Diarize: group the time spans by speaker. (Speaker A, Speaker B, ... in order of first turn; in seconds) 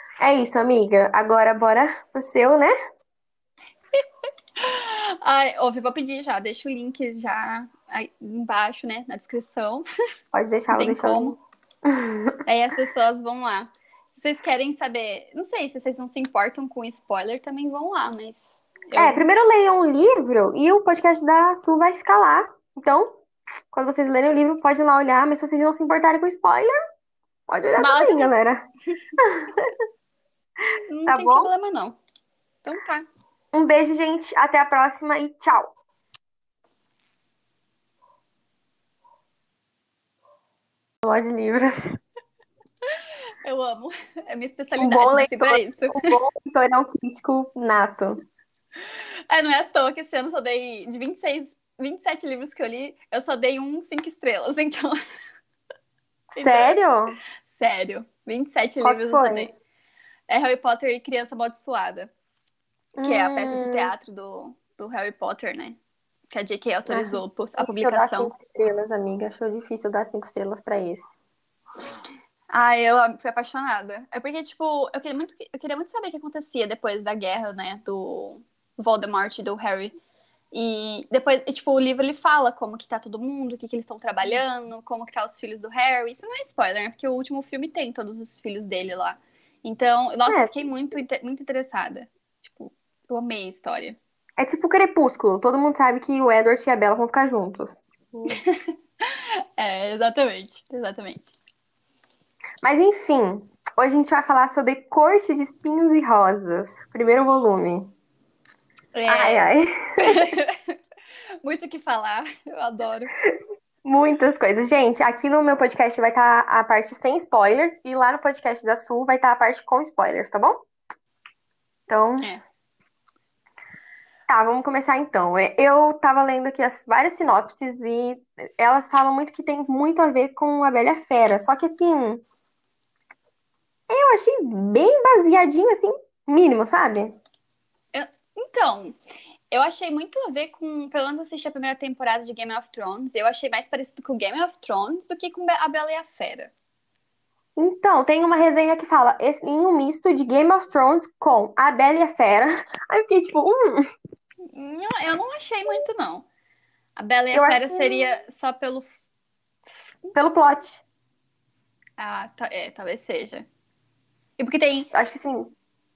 Speaker A: 0.2-2.7, 10.3-12.4, 19.0-23.2, 23.7-26.7, 27.5-28.6, 29.2-29.7, 31.1-31.5, 33.5-35.7, 41.0-42.0, 44.8-48.2, 56.4-57.1, 58.8-59.5, 63.0-63.9, 66.9-71.1, 90.3-90.5, 94.4-98.4, 102.6-107.9, 109.1-110.3, 113.8-120.6, 121.9-122.3, 124.3-132.2, 133.9-137.2, 147.6-153.8, 157.3-158.1, 160.2-160.8, 164.8-165.5
Speaker B: 4.6-9.9, 10.7-11.4, 12.5-19.3, 27.8-28.3, 30.9-32.0, 32.6-33.1, 43.5-46.1, 49.3-55.0, 56.4-56.8, 57.5-59.5, 60.3-62.1, 63.0-65.8, 66.3-68.3, 72.5-79.9, 80.5-94.0, 98.3-101.3, 109.0-109.5, 110.0-110.8, 111.4-113.1, 137.9-139.0, 139.5-146.5, 154.5-156.2, 157.0-158.9, 162.0-163.5, 164.4-164.9